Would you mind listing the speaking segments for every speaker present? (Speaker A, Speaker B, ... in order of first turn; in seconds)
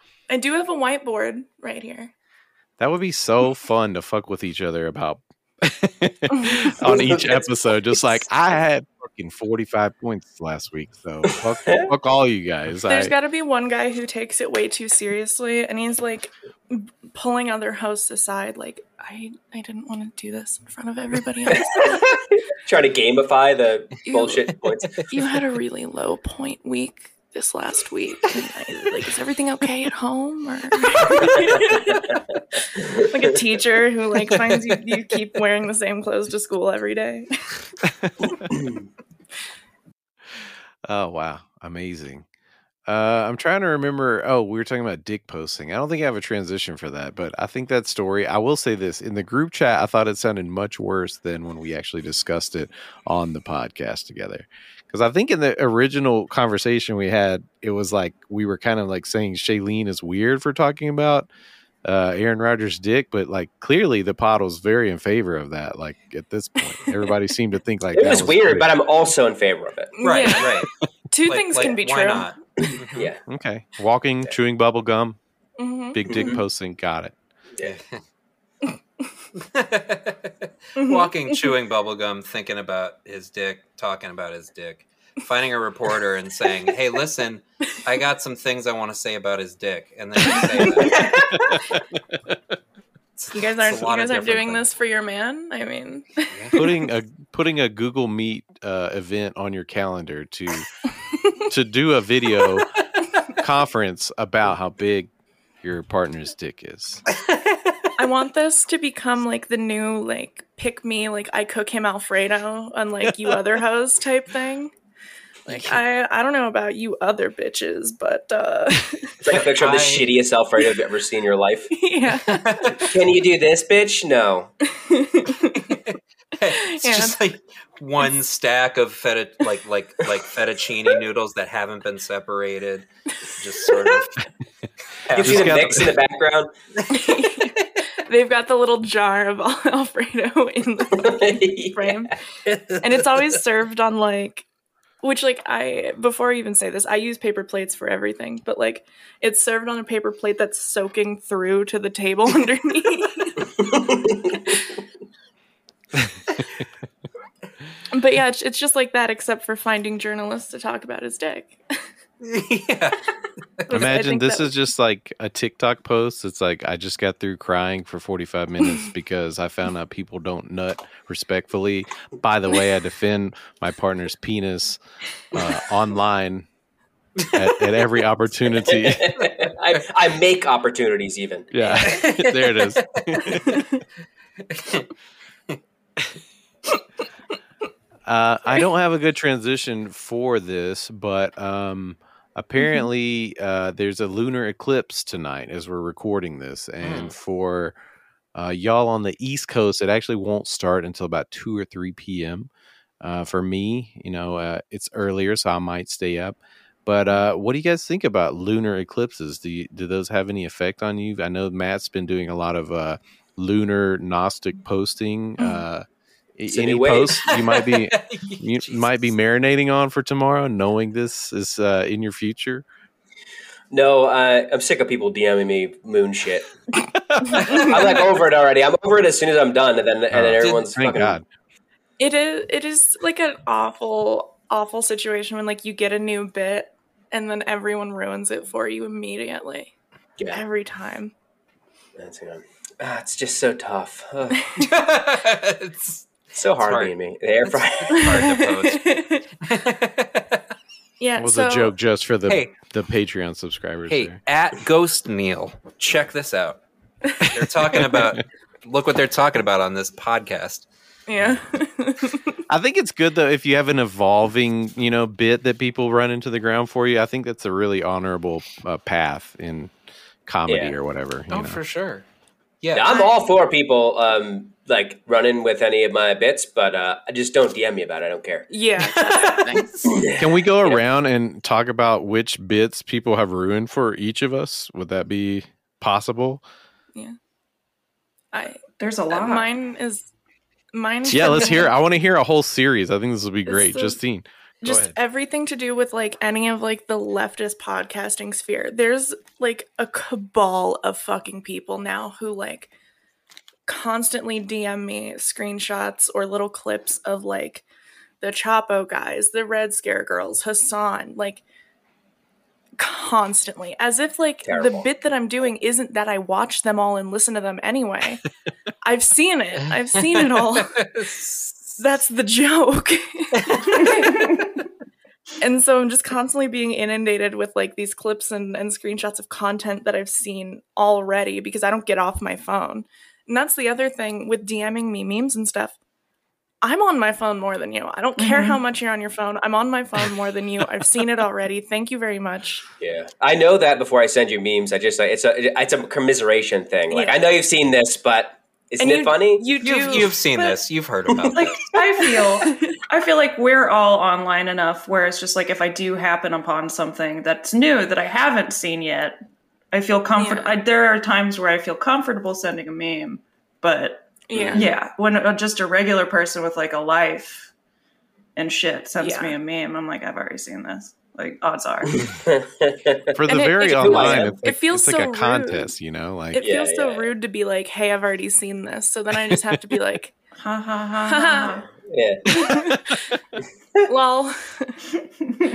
Speaker A: 0.3-2.1, 6.3-6.8, 12.8-22.1, 24.0-24.5, 25.1-32.2, 32.9-37.3, 70.0-72.4, 75.6-76.2, 80.8-81.5, 90.3-90.8, 93.3-96.9, 108.0-114.7, 115.5-119.2, 121.7-122.8, 124.7-125.8, 126.5-127.2, 136.9-142.1, 142.8-144.4, 145.0-153.6, 157.9-161.6, 163.7-164.5, 192.6-192.9, 215.4-215.6, 227.3-227.8, 232.0-239.7, 240.3-241.1, 247.9-249.3, 251.0-251.8, 261.1-262.4, 278.5-280.1, 288.3-290.1, 290.7-291.7, 293.5-294.0, 294.6-302.7, 303.6-307.6, 308.2-311.4, 312.8-318.2, 318.8-320.8, 321.8-324.4, 325.4-335.7, 336.6-342.6, 346.9-347.2, 348.8-350.6, 352.0-352.8, 360.1-360.6, 364.2-364.8, 369.0-369.4, 373.2-375.7, 376.3-380.1, 381.1-381.5, 382.3-383.2, 383.9-384.9
Speaker B: 2.8-13.1, 37.8-38.5, 40.9-42.2, 42.9-61.3, 61.8-68.7, 73.3-75.2, 75.9-77.1, 91.1-92.3, 96.5-100.7, 101.3-102.7, 103.3-105.1, 105.6-107.0, 135.2-135.9, 163.7-174.8, 175.3-176.5, 177.3-179.3, 181.5-183.6, 188.1-197.7, 198.3-202.5, 203.0-215.8, 216.4-222.6, 227.1-227.4, 230.1-231.2, 251.2-254.2, 262.5-269.7, 270.2-271.6, 280.1-286.4, 291.1-294.9, 373.1-376.5
Speaker C: 6.8-7.5, 11.6-11.9, 21.5-25.0, 32.8-33.2, 67.9-70.0, 72.6-73.2, 76.1-76.4, 119.2-121.7, 122.8-124.5, 135.1-136.5, 140.9-142.1, 153.7-154.4, 178.6-181.5, 216.5-217.2, 223.7-226.5, 227.4-231.2, 242.0-244.4, 246.3-248.1, 270.5-270.7, 272.7-278.5, 279.9-280.8, 314.4-314.9, 342.8-349.4, 351.1-351.4, 364.3-364.7, 372.0-373.1, 373.8-374.3, 376.4-377.1, 381.7-382.5
Speaker D: 34.2-35.0, 70.0-70.7, 71.2-73.1, 77.6-78.0, 79.3-91.0, 93.2-94.7, 107.1-107.9, 115.5-115.8, 119.2-120.2, 122.1-122.9, 125.5-134.2, 135.1-135.9, 136.8-137.4, 142.5-143.2, 162.2-163.1, 181.8-183.5, 184.5-184.9, 196.8-197.1, 217.3-219.1, 227.5-227.8, 230.4-230.7, 244.6-246.9, 247.5-250.4, 252.3-252.5, 253.9-256.6, 257.2-260.7, 271.3-272.0, 272.6-272.9, 278.8-279.6, 320.0-321.8, 323.4-323.9, 349.6-351.7
Speaker E: 90.8-91.5, 288.8-289.5, 323.8-324.4, 338.2-338.6, 351.3-359.2, 359.7-367.5, 368.4-372.1, 380.4-381.6